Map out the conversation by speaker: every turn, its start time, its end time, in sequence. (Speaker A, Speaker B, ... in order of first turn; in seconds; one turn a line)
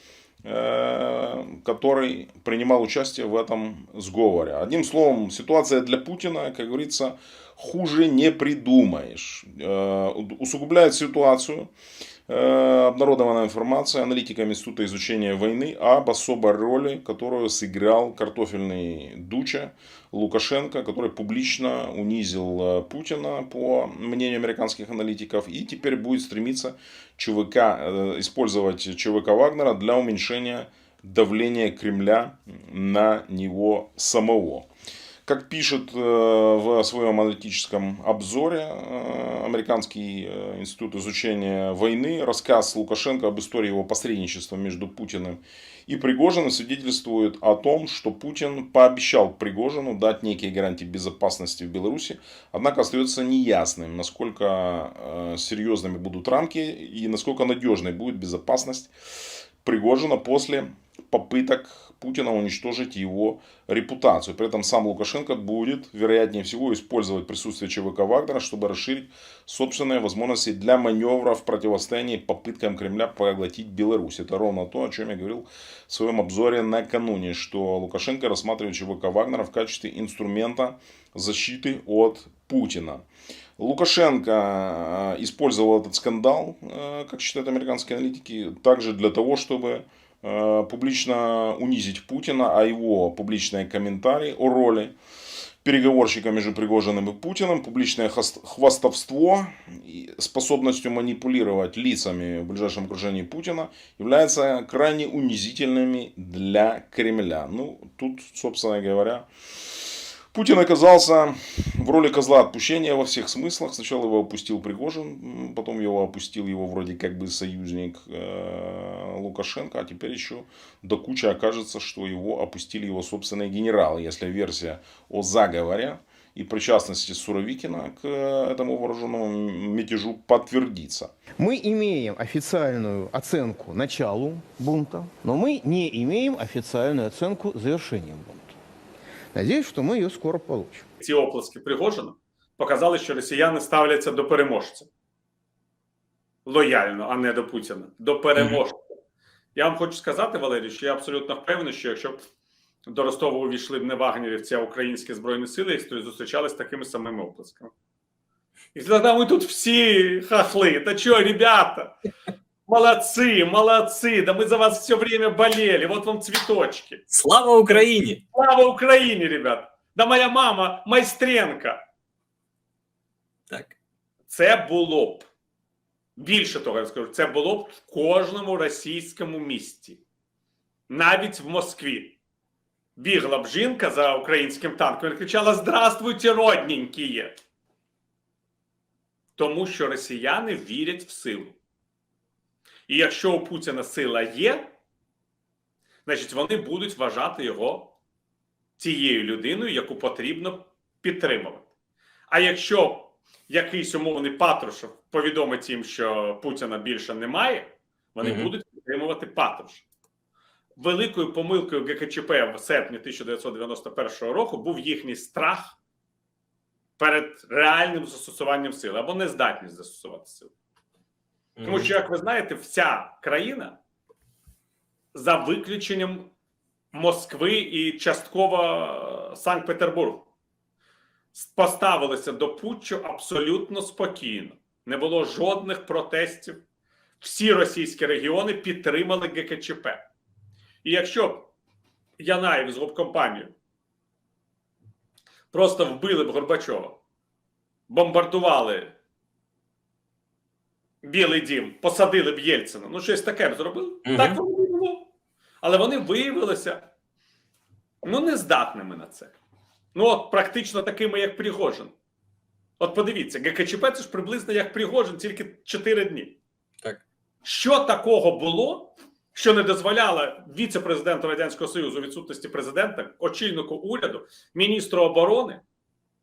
Speaker A: 0.5-11.7
Speaker A: 12.3-34.7
Speaker A: 35.3-58.9
Speaker A: 59.6-83.0
Speaker A: 83.6-95.0
Speaker A: 95.6-109.3
Speaker A: 110.3-131.1
Speaker B: 131.4-138.6
Speaker B: 139.3-140.9
Speaker C: 141.0-144.9
Speaker C: 146.5-148.8
Speaker C: 149.6-152.2
Speaker C: 152.9-157.7
Speaker C: 158.8-161.9
Speaker C: 162.7-167.0
Speaker D: 167.1-168.2
Speaker C: 168.3-171.8
Speaker C: 174.3-175.2
Speaker C: 176.2-180.0
Speaker C: 180.9-182.2
Speaker C: 183.0-187.3
Speaker C: 189.4-191.6
Speaker C: 192.9-194.7
Speaker C: 196.1-197.9
Speaker C: 198.8-201.7
Speaker C: 202.3-209.8
Speaker D: 208.2-208.5
Speaker C: 210.8-215.8
Speaker C: 217.0-220.5
Speaker D: 221.6-221.9
Speaker C: 221.7-223.8
Speaker C: 225.1-226.3
Speaker C: 226.9-230.3
Speaker C: 231.3-236.6
Speaker C: 237.2-240.1
Speaker C: 240.8-241.5
Speaker C: 242.2-243.5
Speaker C: 245.5-247.0
Speaker C: 247.9-248.9
Speaker C: 251.0-255.1
Speaker D: 254.0-254.4
Speaker C: 255.6-256.9
Speaker C: 258.0-259.4
Speaker C: 259.9-261.9
Speaker C: 262.8-266.4
Speaker C: 267.4-275.6